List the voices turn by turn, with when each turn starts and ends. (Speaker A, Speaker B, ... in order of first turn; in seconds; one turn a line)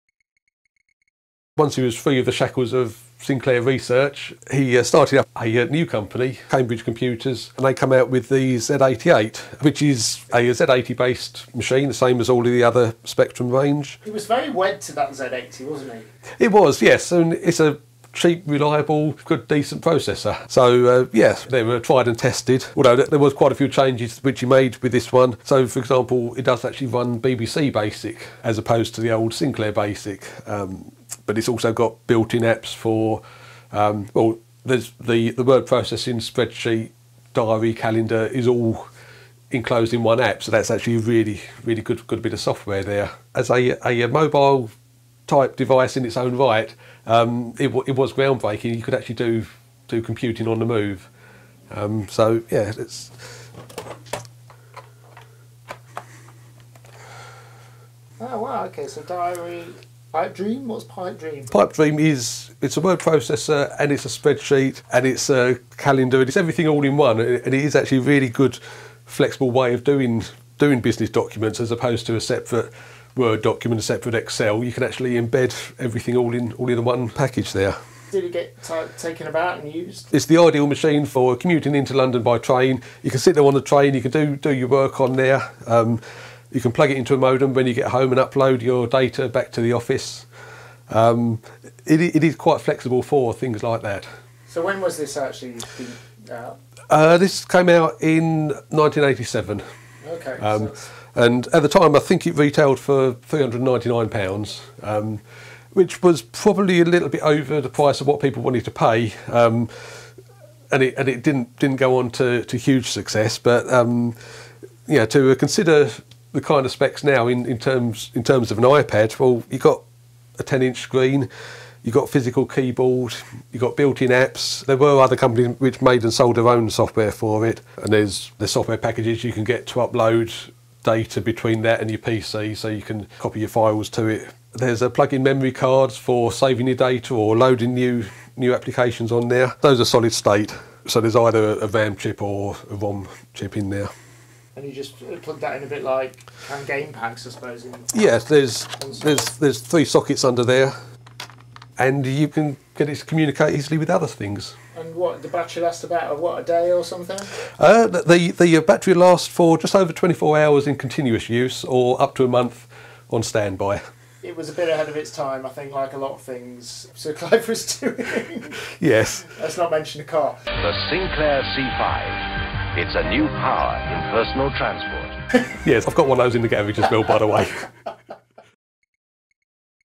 Speaker A: 1.6-14.0
Speaker B: 14.0-16.1
Speaker A: 16.4-38.9
Speaker A: 39.5-44.7
Speaker A: 45.3-51.1
Speaker A: 51.7-53.3
Speaker B: 58.2-61.5
Speaker A: 61.5-77.8
Speaker B: 78.1-80.1
Speaker A: 80.1-86.0
Speaker A: 86.5-90.3
Speaker A: 90.9-94.1
Speaker B: 94.5-96.6
Speaker A: 96.9-99.6
Speaker B: 100.0-100.8
Speaker A: 100.4-105.2
Speaker A: 105.7-109.7
Speaker A: 110.7-114.2
Speaker A: 114.9-119.8
Speaker A: 120.4-121.3
Speaker A: 121.8-143.9
Speaker B: 144.5-148.2
Speaker A: 147.9-150.7
Speaker B: 148.8-149.2
Speaker A: 151.8-154.5
Speaker B: 154.7-157.3
Speaker A: 157.6-163.8
Speaker B: 164.2-168.6
Speaker A: 168.8-169.3
Speaker B: 169.2-170.4
Speaker C: 170.6-175.2
Speaker A: 175.6-177.7